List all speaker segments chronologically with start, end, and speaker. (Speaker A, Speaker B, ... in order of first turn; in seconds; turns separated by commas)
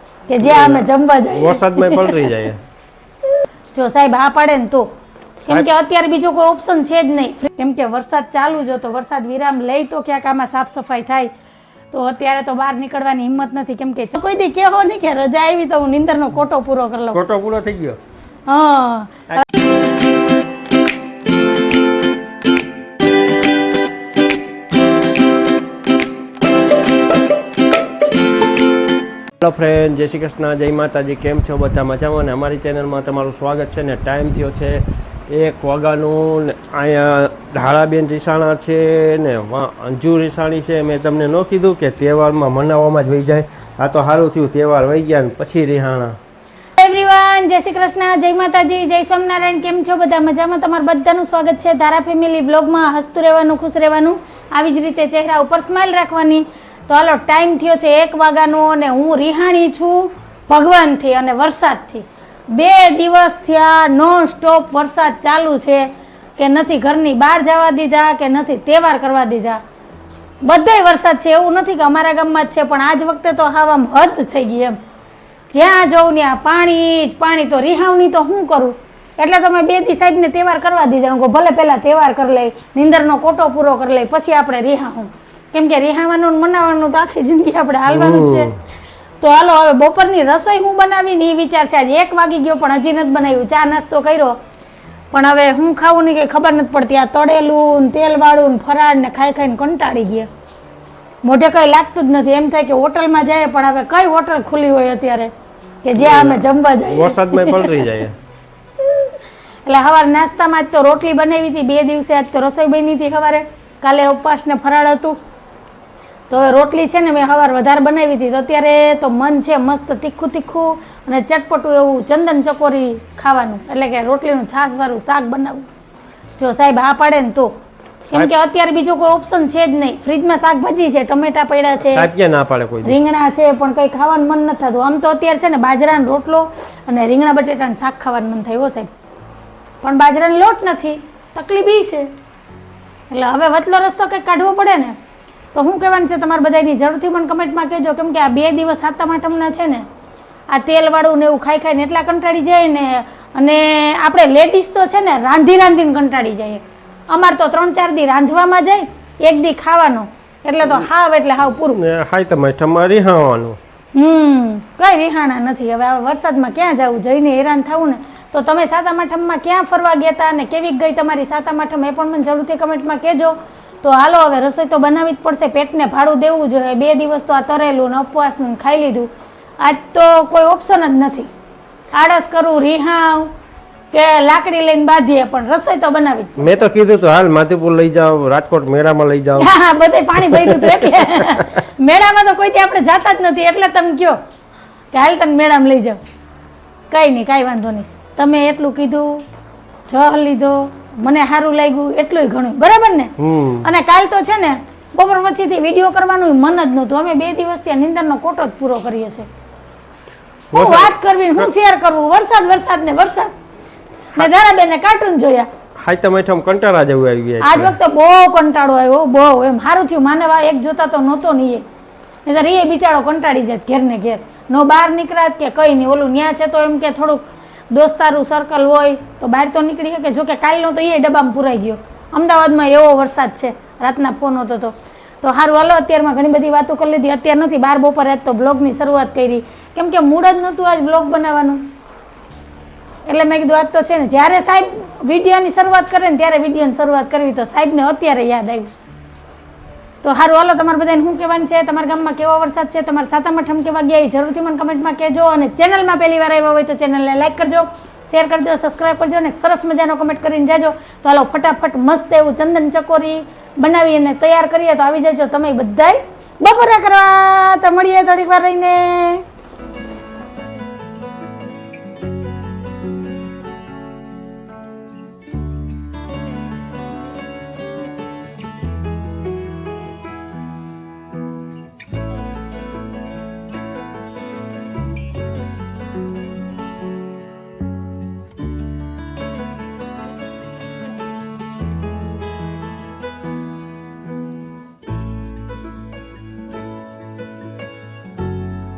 Speaker A: 0.3-2.4, Speaker B: 0.4-2.6, Speaker A: 3.7-11.3, Speaker A: 11.9-17.2, Speaker B: 17.1-18.0, Speaker A: 18.5-19.3, Speaker B: 29.4-46.2, Speaker A: 46.8-69.6, Speaker A: 70.4-74.8, Speaker A: 75.5-88.5, Speaker B: 87.9-88.6, Speaker A: 89.2-94.4, Speaker A: 95.1-100.3, Speaker A: 101.2-105.3, Speaker A: 105.8-108.0, Speaker B: 106.0-108.2, Speaker A: 108.8-115.2, Speaker A: 116.3-125.7, Speaker A: 126.4-132.1, Speaker B: 131.8-133.0, Speaker A: 132.8-138.9, Speaker A: 139.8-142.1, Speaker A: 143.1-145.0, Speaker A: 145.5-149.9, Speaker A: 150.5-161.8, Speaker B: 161.7-163.6, Speaker A: 163.9-181.3, Speaker A: 181.9-183.3, Speaker A: 183.9-186.4, Speaker B: 186.4-189.5, Speaker A: 189.4-194.2, Speaker B: 190.2-191.6, Speaker A: 194.9-196.0, Speaker A: 196.9-199.2, Speaker A: 199.9-209.3, Speaker B: 203.2-203.7, Speaker B: 210.5-211.5, Speaker A: 210.5-213.3, Speaker A: 214.1-215.5, Speaker B: 215.8-217.8, Speaker A: 217.4-221.6, Speaker A: 222.3-241.7, Speaker A: 243.1-248.7, Speaker A: 250.0-269.2